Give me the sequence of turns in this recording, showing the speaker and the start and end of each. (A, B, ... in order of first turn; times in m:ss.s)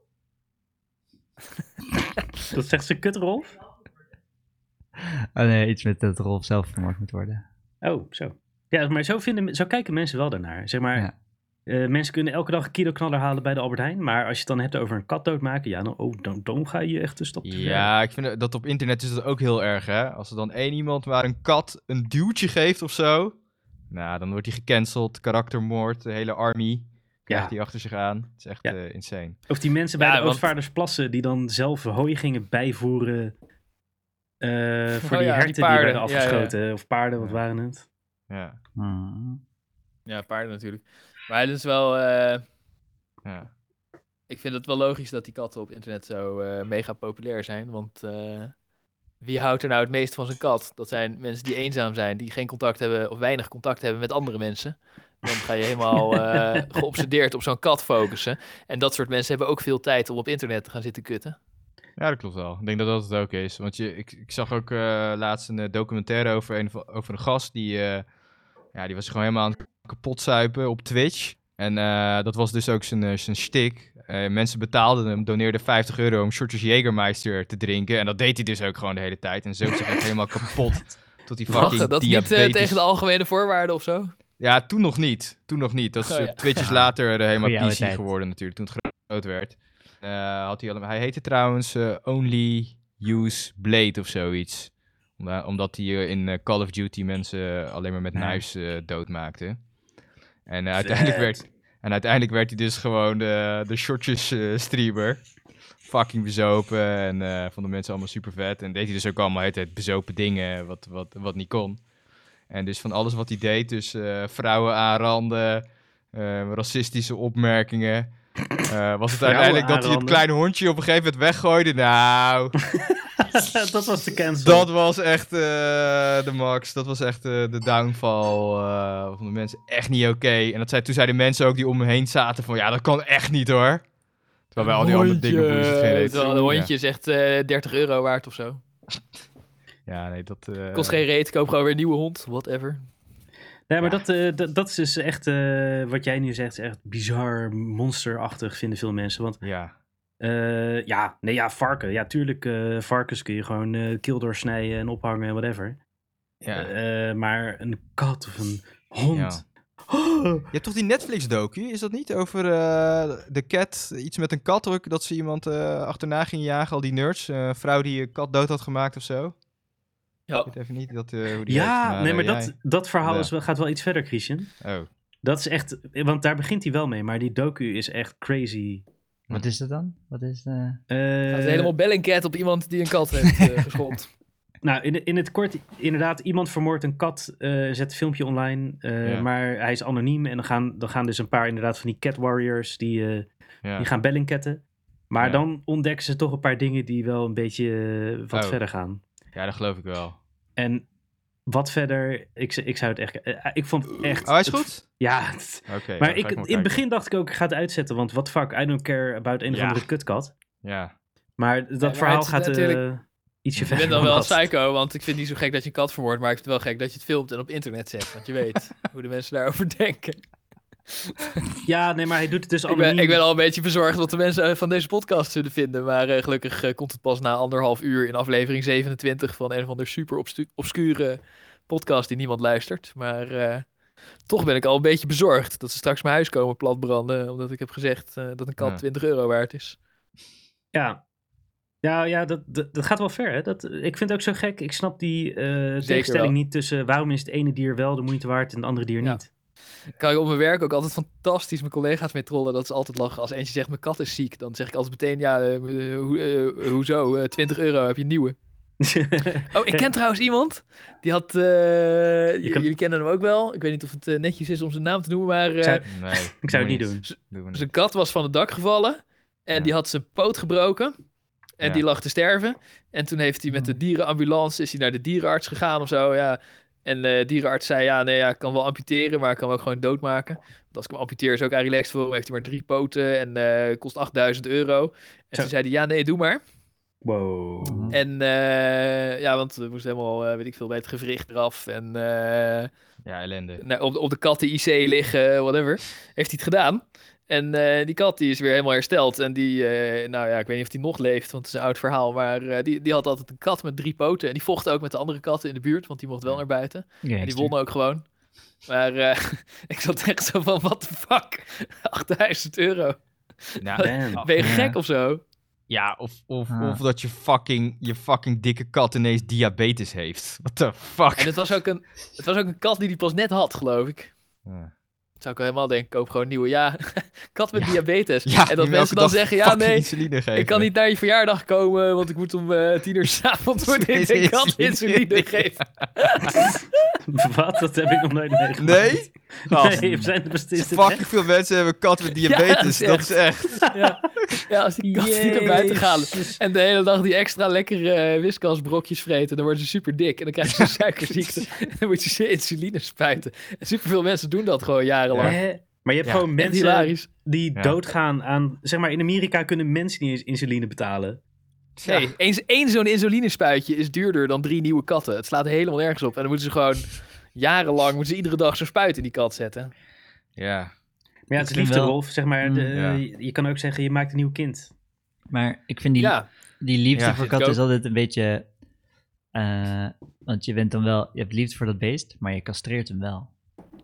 0:02.5-0:03.6 A
0:05.4-0:07.4 B
0:07.8-0:11.1 A
0:11.7-0:17.9 A
0:17.4-0:23.4 C
0:23.9-0:29.4 C
0:27.3-0:27.5 A
0:29.5-0:33.3 A
0:30.0-0:30.4 D
0:34.4-0:37.8 A
0:35.1-0:36.6 D
0:38.3-0:38.6 C
0:38.8-0:39.4 B
0:40.1-0:42.4 D
0:43.2-0:43.5 C
0:44.3-0:48.6 D
0:49.2-1:01.4 D
1:02.0-1:08.1 C
1:08.7-1:22.8 C
1:21.5-1:24.2 D
1:24.4-1:39.6 C
1:26.1-1:26.7 D
1:27.4-1:28.1 B
1:38.1-1:38.4 B
1:40.5-1:45.2 C
1:40.8-1:41.4 A
1:45.8-1:51.8 C
1:52.5-2:02.6 C
1:59.1-2:00.2 A
2:03.3-2:04.7 A
2:04.4-2:13.9 C
2:14.5-2:16.7 C
2:14.6-2:18.6 D
2:16.2-2:16.5 A
2:19.9-2:21.0 C
2:20.7-2:22.8 D
2:23.7-2:29.4 A
2:29.4-2:29.7 C
2:30.2-2:35.8 A
2:36.4-2:36.7 C
2:36.6-2:40.4 A
2:39.1-2:39.4 C
2:40.5-2:49.4 C
2:50.4-2:53.3 C
2:51.5-2:54.5 A
2:54.6-2:54.9 C
2:55.2-2:58.9 A
2:59.3-3:00.8 B
3:00.9-3:01.7 A
3:01.3-3:04.1 D
3:04.6-3:19.0 A
3:18.3-3:18.6 C
3:19.3-3:20.2 C
3:20.6-3:20.8 A
3:21.5-3:30.3 A
3:24.2-3:24.9 C
3:25.7-3:26.8 C
3:29.5-3:29.9 C
3:30.6-3:30.9 C
3:31.4-3:34.5 A
3:31.8-3:32.8 D
3:33.6-3:34.2 C
3:33.7-3:40.2 D
3:41.6-3:43.2 A
3:42.7-3:53.7 D
3:54.3-3:59.8 D
4:00.7-4:01.0 A
4:01.8-4:09.3 A
4:05.8-4:06.3 D
4:10.0-4:18.4 D
4:18.8-4:19.9 A
4:19.5-4:25.9 D
4:22.4-4:22.7 A
4:25.6-4:25.9 A
4:25.9-4:27.7 C
4:26.4-4:27.1 A
4:27.5-4:30.9 D
4:31.6-4:46.4 D
4:33.5-4:33.8 B
4:47.0-4:48.0 A
4:47.6-4:48.0 B
4:47.9-4:52.7 D
4:53.0-4:53.6 C
4:53.6-5:08.0 D
5:07.0-5:07.5 B
5:08.7-5:13.0 D
5:13.6-5:15.2 D
5:13.6-5:14.8 C
5:13.8-5:14.5 A
5:15.7-5:21.4 C
5:16.5-5:16.8 B
5:21.2-5:24.1 D
5:24.4-5:24.7 C
5:25.2-5:36.5 D
5:27.6-5:30.7 C
5:33.6-5:35.6 C
5:37.1-5:41.0 A
5:38.6-5:39.9 C
5:39.7-5:40.1 B
5:40.6-5:43.7 C
5:42.2-5:55.4 D
5:44.8-5:46.4 A
5:50.4-5:51.5 C
5:55.1-5:55.4 C
5:55.2-6:01.2 A
5:56.4-5:57.1 D
6:01.8-6:02.1 C
6:01.9-6:09.7 D
6:10.4-6:10.7 C
6:11.3-6:14.7 A
6:11.4-6:12.7 B
6:12.7-6:13.0 C
6:15.3-6:18.5 B
6:16.0-6:16.3 D
6:16.9-6:17.2 C
6:17.2-6:17.6 D
6:19.3-6:23.3 B